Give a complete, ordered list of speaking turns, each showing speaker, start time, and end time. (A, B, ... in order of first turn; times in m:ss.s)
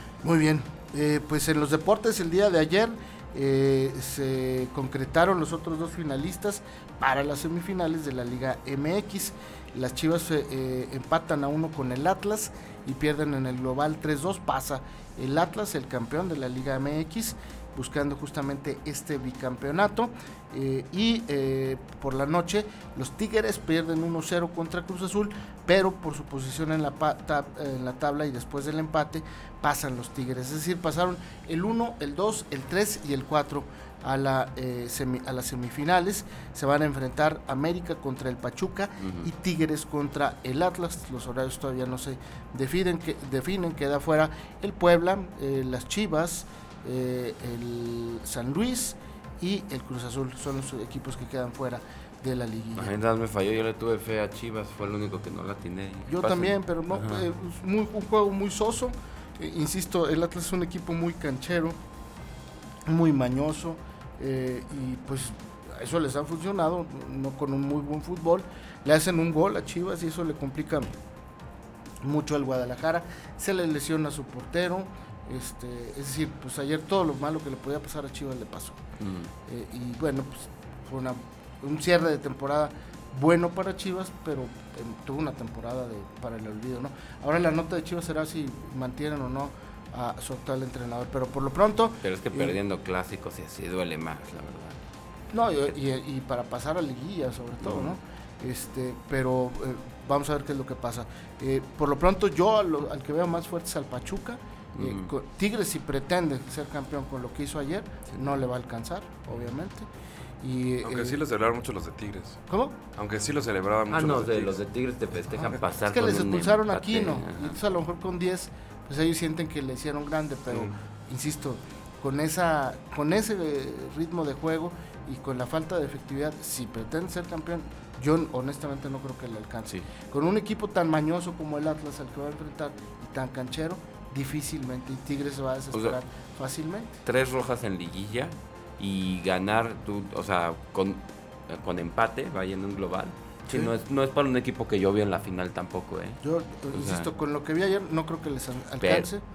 0:00.2-0:52.9 A
0:39.0-0:39.3 B
0:52.8-0:57.2 B
0:56.1-1:01.8 A
1:02.9-1:10.9 A
1:12.0-1:18.8 A
1:19.0-1:19.3 B
1:19.4-1:32.6 A
1:32.0-1:34.8 B
1:35.3-1:49.9 A
1:37.6-1:38.0 B
1:44.8-1:45.1 B
1:50.4-1:51.2 A
1:50.8-1:52.4 C
1:52.5-1:52.8 A
1:52.9-1:54.6 C
1:53.9-1:57.6 B
1:55.4-2:16.9 A
2:00.5-2:00.7 C
2:17.0-2:26.2 B
2:26.2-2:29.2 A
2:26.7-2:27.1 B
2:28.8-2:29.1 B